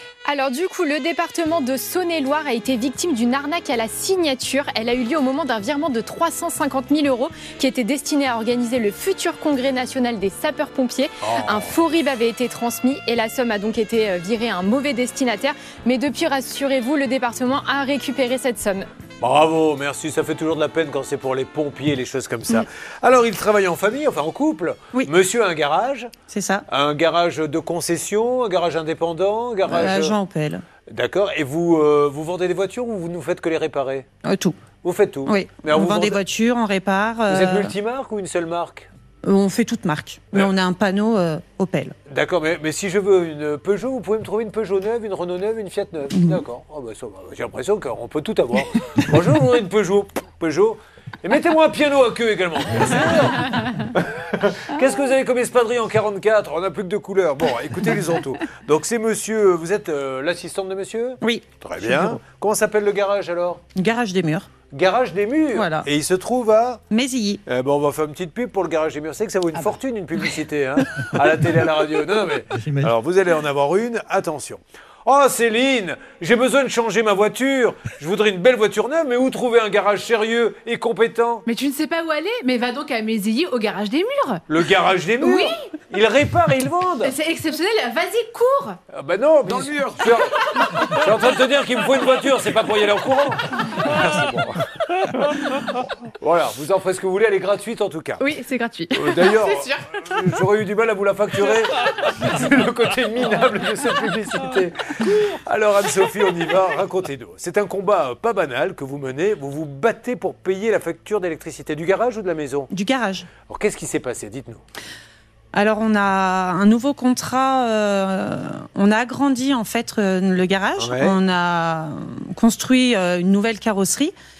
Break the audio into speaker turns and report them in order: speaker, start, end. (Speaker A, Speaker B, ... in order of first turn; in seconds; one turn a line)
Speaker A: 0.2-18.9
Speaker B: 11.2-11.8
Speaker B: 19.2-26.1
Speaker C: 26.3-26.6
Speaker B: 26.7-30.1
Speaker C: 29.6-30.6
Speaker B: 30.9-34.0
Speaker C: 34.2-34.5
Speaker B: 34.8-36.2
Speaker C: 35.2-37.7
Speaker B: 37.3-38.9
Speaker C: 39.2-41.9
Speaker B: 42.1-63.6
Speaker C: 46.1-46.4
Speaker C: 61.2-62.2
Speaker C: 63.7-64.5
Speaker B: 64.7-66.8
Speaker C: 65.5-65.9
Speaker C: 66.9-67.4
Speaker B: 67.5-81.5
Speaker D: 81.5-84.4
Speaker B: 84.5-87.1
Speaker D: 85.2-85.6
Speaker D: 87.0-88.8
Speaker B: 88.9-98.2
Speaker A: 98.2-98.9
Speaker D: 98.4-99.9
Speaker B: 98.9-112.7
Speaker C: 112.7-113.3
Speaker B: 113.5-114.6
Speaker C: 115.5-124.1
Speaker B: 120.8-121.2